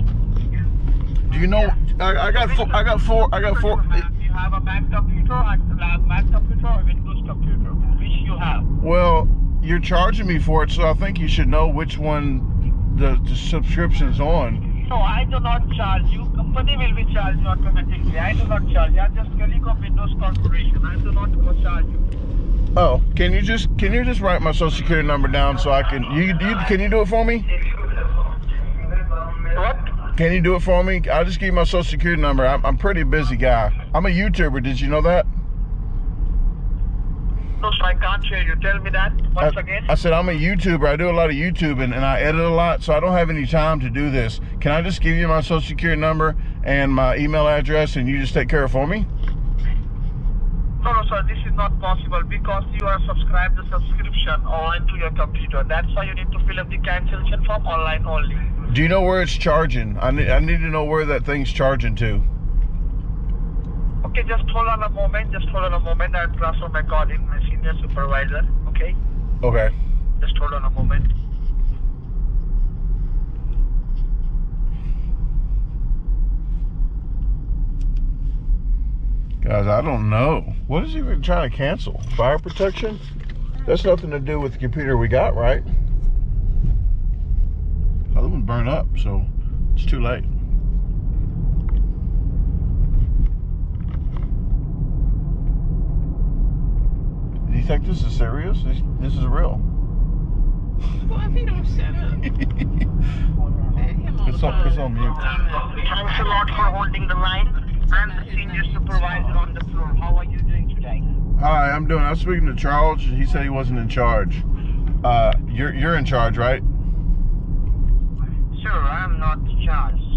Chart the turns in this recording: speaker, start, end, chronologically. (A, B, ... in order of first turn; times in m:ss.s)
0:01.3-0:04.0 A
0:01.5-0:08.7 B
0:08.8-0:14.6 A
0:14.7-0:22.0 B
0:22.7-0:27.5 A
0:29.3-0:30.0 B
0:30.1-0:35.3 A
0:37.6-0:39.9 B
0:39.4-0:49.1 A
0:50.8-0:58.5 B
0:58.7-1:02.2 A
1:04.0-1:09.0 B
1:09.4-1:09.7 A
1:10.2-1:11.0 B
1:19.4-1:23.0 A
1:23.6-1:25.6 A
1:28.1-1:30.3 A
1:37.4-1:39.6 A
1:41.0-1:42.3 C
1:43.8-1:46.7 C
1:44.2-1:45.2 A
1:45.2-1:51.1 B
1:47.9-1:49.4 C
1:51.4-1:54.4 A
1:55.0-1:56.6 A
1:58.5-2:00.0 B